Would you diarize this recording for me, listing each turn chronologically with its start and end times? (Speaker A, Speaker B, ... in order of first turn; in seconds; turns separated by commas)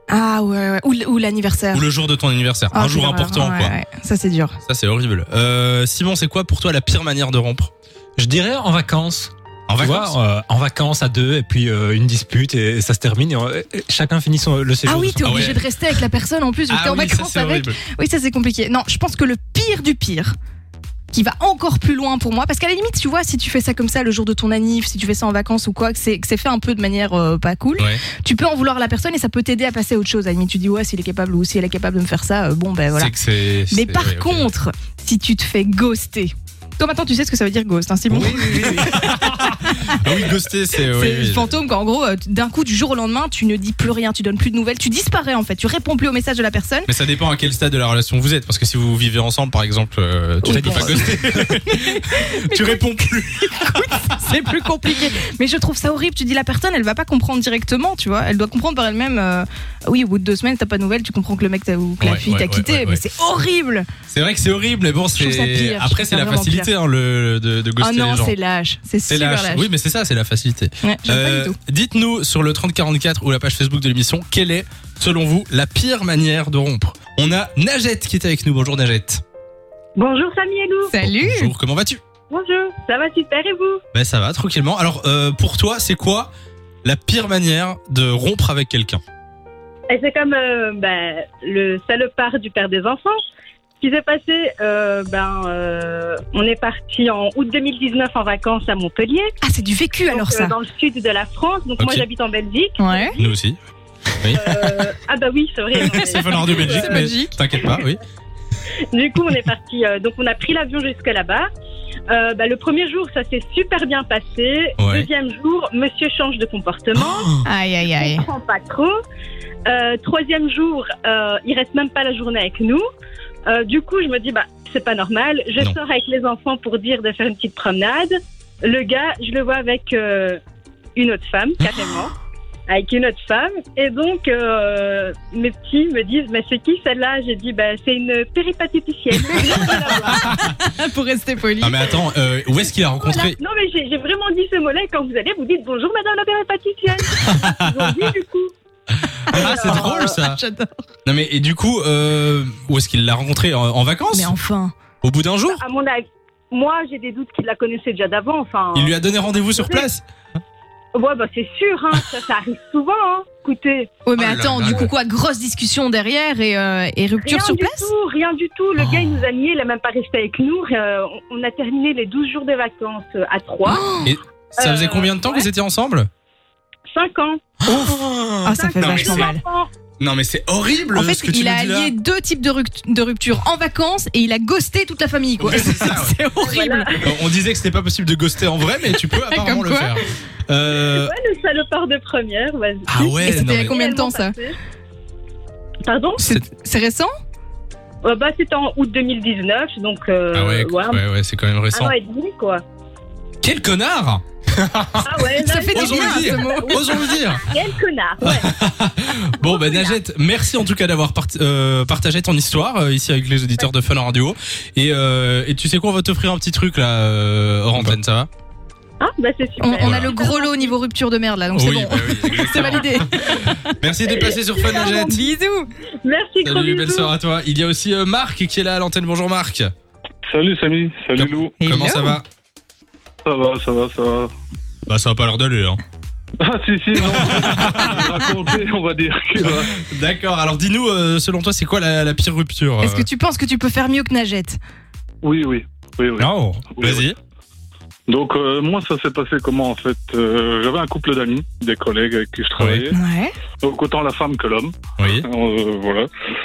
Speaker A: 0.1-1.9, Speaker B: 1.7-3.7, Speaker A: 2.7-4.5, Speaker B: 4.7-7.7, Speaker C: 8.2-15.6, Speaker B: 9.7-10.2, Speaker A: 14.8-20.4, Speaker B: 15.2-15.6, Speaker B: 16.7-17.8, Speaker A: 21.1-33.1, Speaker B: 27.8-28.0, Speaker B: 32.9-34.5, Speaker A: 33.7-39.2, Speaker B: 38.1-41.5, Speaker A: 39.7-40.3, Speaker A: 40.9-46.9, Speaker B: 46.9-54.2, Speaker A: 50.4-63.9, Speaker C: 50.5-51.6, Speaker B: 62.0-63.0, Speaker B: 64.1-68.3, Speaker A: 65.1-66.7, Speaker A: 67.8-69.7, Speaker B: 69.1-79.2, Speaker A: 70.8-71.6, Speaker D: 80.0-80.9, Speaker A: 80.9-81.5, Speaker B: 81.0-82.0, Speaker D: 82.3-83.8, Speaker B: 83.9-86.3, Speaker B: 86.8-89.0, Speaker D: 89.9-93.2, Speaker D: 93.8-99.3, Speaker A: 99.4-100.5, Speaker D: 100.1-103.3, Speaker B: 101.8-102.0, Speaker A: 102.8-103.2, Speaker B: 103.2-103.6, Speaker B: 104.2-104.5, Speaker D: 104.3-107.1, Speaker B: 105.8-108.0, Speaker A: 105.8-107.7, Speaker D: 108.9-111.5, Speaker D: 112.1-118.9, Speaker B: 114.8-115.1, Speaker A: 117.4-118.3, Speaker D: 119.7-122.8, Speaker D: 123.5-128.1, Speaker D: 128.6-130.4, Speaker D: 130.9-132.2, Speaker D: 132.7-140.2, Speaker A: 139.2-142.0, Speaker B: 140.1-140.4, Speaker B: 141.6-143.4, Speaker D: 143.0-148.5, Speaker B: 147.2-147.5, Speaker B: 149.3-150.4, Speaker D: 149.3-150.2, Speaker A: 149.3-150.7, Speaker B: 151.0-154.3, Speaker A: 154.1-154.7, Speaker B: 155.0-155.6, Speaker D: 155.5-158.9, Speaker B: 158.7-160.0, Speaker D: 159.5-159.9, Speaker D: 160.9-163.9, Speaker A: 164.1-167.9, Speaker B: 164.1-164.9, Speaker D: 167.2-173.8, Speaker A: 173.7-174.1, Speaker B: 174.0-176.1, Speaker D: 174.6-175.5, Speaker D: 176.9-177.4, Speaker C: 177.7-178.5, Speaker A: 178.4-179.4, Speaker D: 178.5-179.7, Speaker B: 178.8-179.3, Speaker B: 180.0-181.9, Speaker A: 180.9-186.9, Speaker B: 185.4-186.2, Speaker D: 186.4-186.9, Speaker B: 187.0-191.1, Speaker A: 189.1-190.1, Speaker D: 190.7-194.5, Speaker B: 192.9-193.8, Speaker A: 192.9-194.3, Speaker D: 195.8-196.2, Speaker A: 196.2-197.1, Speaker D: 198.0-201.0, Speaker B: 200.3-201.9, Speaker D: 201.7-202.6, Speaker B: 203.4-204.2, Speaker D: 205.0-208.5, Speaker A: 205.4-206.8, Speaker B: 205.7-207.5, Speaker B: 208.2-218.3, Speaker D: 209.4-210.0, Speaker D: 219.0-220.7, Speaker A: 219.6-223.8, Speaker B: 219.8-220.1, Speaker B: 221.5-225.2, Speaker D: 224.1-225.2, Speaker A: 224.7-225.7, Speaker D: 226.0-227.1, Speaker B: 226.4-229.7, Speaker E: 230.2-231.5, Speaker B: 231.2-232.2, Speaker A: 231.6-232.2, Speaker E: 233.2-234.3, Speaker B: 234.9-235.8, Speaker E: 236.4-239.7, Speaker B: 237.0-238.2, Speaker B: 239.4-243.1, Speaker A: 242.8-244.6, Speaker E: 245.2-247.1, Speaker B: 246.2-247.2, Speaker E: 248.1-253.0, Speaker B: 252.6-252.8, Speaker A: 252.9-253.3, Speaker E: 253.6-256.1, Speaker B: 255.0-255.3